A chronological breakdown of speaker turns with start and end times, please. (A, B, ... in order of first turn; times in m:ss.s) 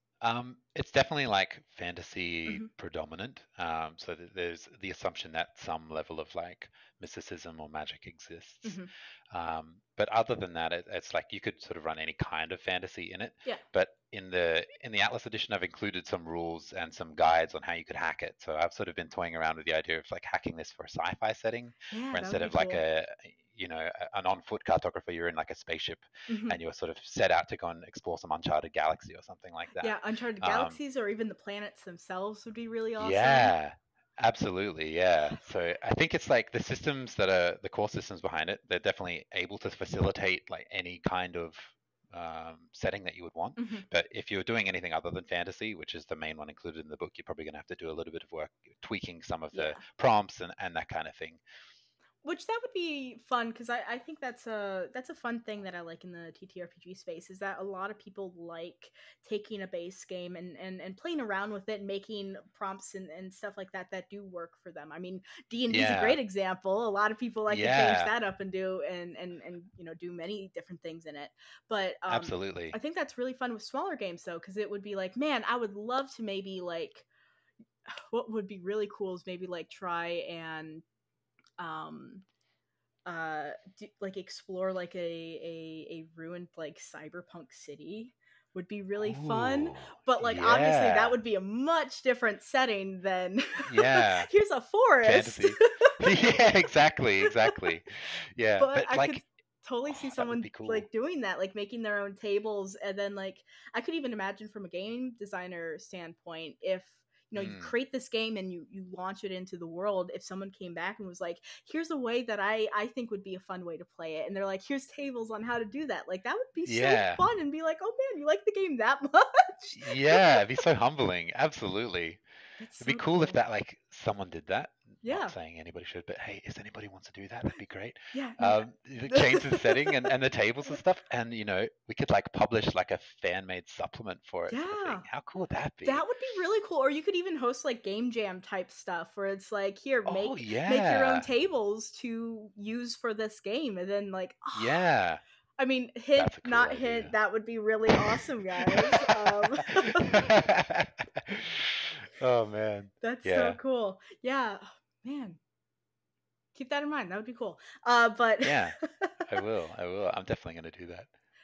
0:00.2-0:30.8 A
0:08.6-0:08.9 B
0:21.9-0:22.8 B
0:26.3-0:26.6 B
0:29.8-0:33.5 B
0:33.0-0:51.4 A
0:43.6-0:43.8 B
0:49.5-0:49.8 B
0:52.2-1:17.0 B
1:05.7-1:06.2 A
1:07.5-1:08.1 A
1:12.1-1:12.8 A
1:17.9-1:20.8 B
1:21.6-1:22.2 B
1:23.0-1:36.4 B
1:29.0-1:31.2 A
1:33.6-1:34.3 A
1:35.0-1:39.2 A
1:37.2-1:37.6 B
1:38.6-2:00.4 B
1:39.9-1:40.9 A
1:47.3-1:47.7 A
1:56.6-1:57.2 A
1:59.7-2:02.2 A
2:02.6-2:03.4 B
2:02.8-2:16.0 A
2:05.0-2:05.3 B
2:08.1-2:10.1 B
2:14.5-2:15.0 B
2:15.8-2:24.8 B
2:20.0-2:21.3 A
2:24.5-2:25.2 A
2:25.6-2:30.2 B
2:26.1-2:27.1 A
2:27.9-2:33.6 A
2:33.0-2:35.4 B
2:36.5-2:39.2 B
2:38.4-2:41.1 A